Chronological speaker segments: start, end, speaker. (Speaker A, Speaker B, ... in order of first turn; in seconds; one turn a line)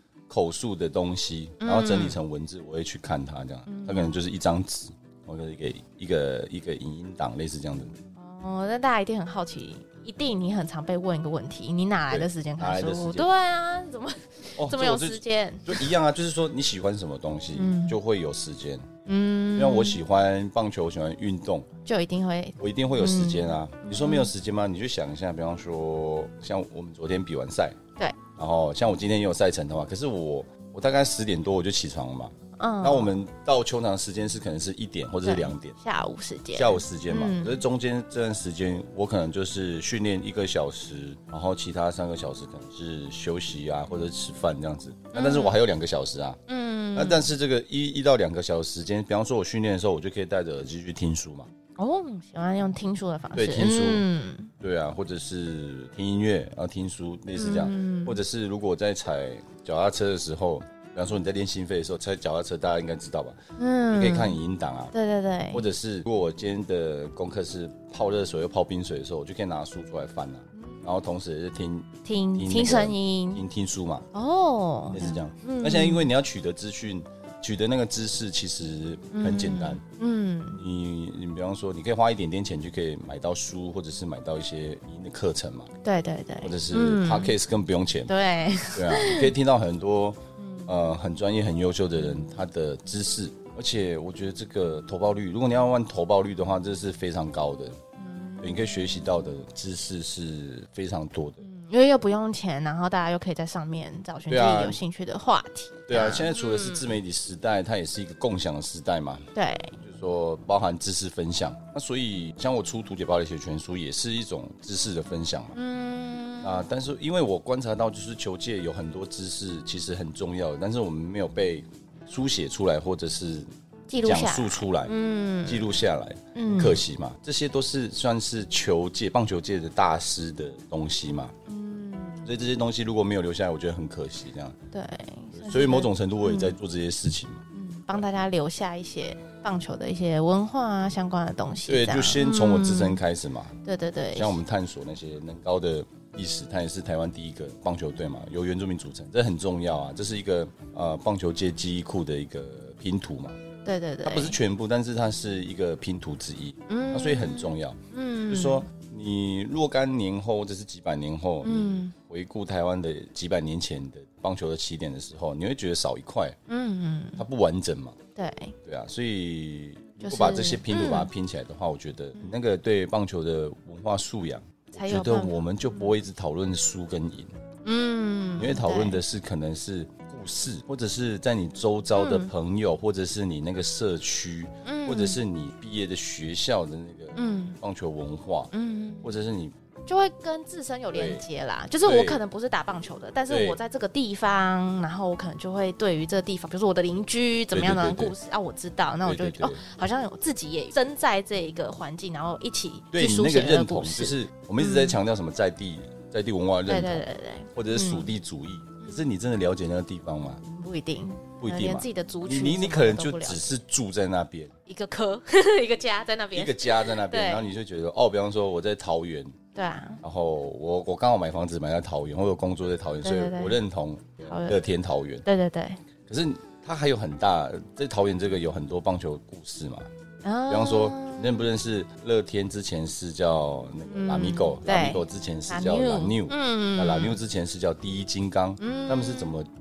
Speaker A: 0.3-8.0
Speaker B: 1.6-2.2
Speaker B: 3.6-4.1
Speaker B: 8.2-15.8
Speaker A: 12.1-13.3
Speaker A: 14.6-18.9
Speaker B: 17.5-18.0
Speaker B: 19.1-20.0
Speaker A: 19.5-21.7
Speaker B: 21.9-24.3
Speaker A: 22.6-27.8
Speaker A: 28.4-35.8
Speaker B: 32.6-33.1
Speaker B: 35.2-37.6
Speaker A: 36.5-46.4
Speaker B: 45.1-45.6
Speaker B: 46.5-47.2
Speaker A: 46.9-51.5
Speaker B: 51.8-54.5
Speaker A: 53.4-54.1
Speaker A: 54.6-63.4
Speaker B: 57.4-58.2
Speaker B: 63.6-64.4
Speaker A: 63.9-64.9
Speaker B: 64.9-65.6
Speaker A: 65.5-74.1
Speaker B: 70.5-70.8
Speaker B: 72.0-73.4
Speaker B: 74.1-76.1
Speaker A: 74.9-79.8
Speaker B: 79.1-80.6
Speaker A: 80.5-85.7
Speaker B: 85.8-87.3
Speaker A: 86.4-88.1
Speaker B: 88.1-89.3
Speaker A: 88.7-97.8
Speaker B: 90.4-90.7
Speaker B: 98.0-99.1
Speaker A: 98.4-101.4
Speaker B: 101.4-106.9
Speaker A: 104.3-104.8
Speaker A: 105.9-109.3
Speaker B: 109.3-109.8
Speaker A: 109.8-115.6
Speaker B: 115.5-116.6
Speaker A: 116.4-123.5
Speaker B: 123.9-125.7
Speaker A: 124.0-124.9
Speaker A: 125.5-131.3
Speaker B: 126.3-126.8
Speaker B: 131.5-132.3
Speaker A: 132.2-134.6
Speaker B: 134.7-136.6
Speaker A: 135.3-137.4
Speaker B: 137.5-143.0
Speaker A: 141.7-143.6
Speaker B: 143.6-144.4
Speaker A: 144.1-153.4
Speaker B: 153.6-154.4
Speaker A: 154.0-166.4
Speaker B: 156.7-158.7
Speaker B: 161.4-161.9
Speaker B: 166.5-167.2
Speaker A: 167.2-168.0
Speaker B: 168.2-168.5
Speaker A: 168.6-177.3
Speaker B: 170.0-171.1
Speaker B: 174.7-175.4
Speaker B: 177.6-179.0
Speaker A: 178.4-188.5
Speaker B: 181.9-182.3
Speaker B: 184.6-185.2
Speaker B: 187.2-187.6
Speaker B: 188.5-189.1
Speaker A: 189.0-189.5
Speaker B: 189.9-205.0
Speaker A: 190.9-191.2
Speaker A: 191.8-192.2
Speaker A: 193.3-193.6
Speaker A: 197.5-198.1
Speaker A: 199.0-199.6
Speaker A: 202.9-210.4
Speaker B: 206.7-208.1
Speaker B: 210.4-213.5
Speaker A: 211.4-214.5
Speaker B: 214.7-217.5
Speaker A: 216.3-219.3
Speaker B: 219.5-220.0
Speaker A: 220.0-225.2
Speaker B: 223.0-223.6
Speaker B: 224.2-224.6
Speaker B: 225.2-225.8
Speaker A: 226.1-229.9
Speaker B: 230.2-231.3
Speaker A: 230.5-239.5
Speaker B: 233.9-237.2
Speaker B: 238.6-239.3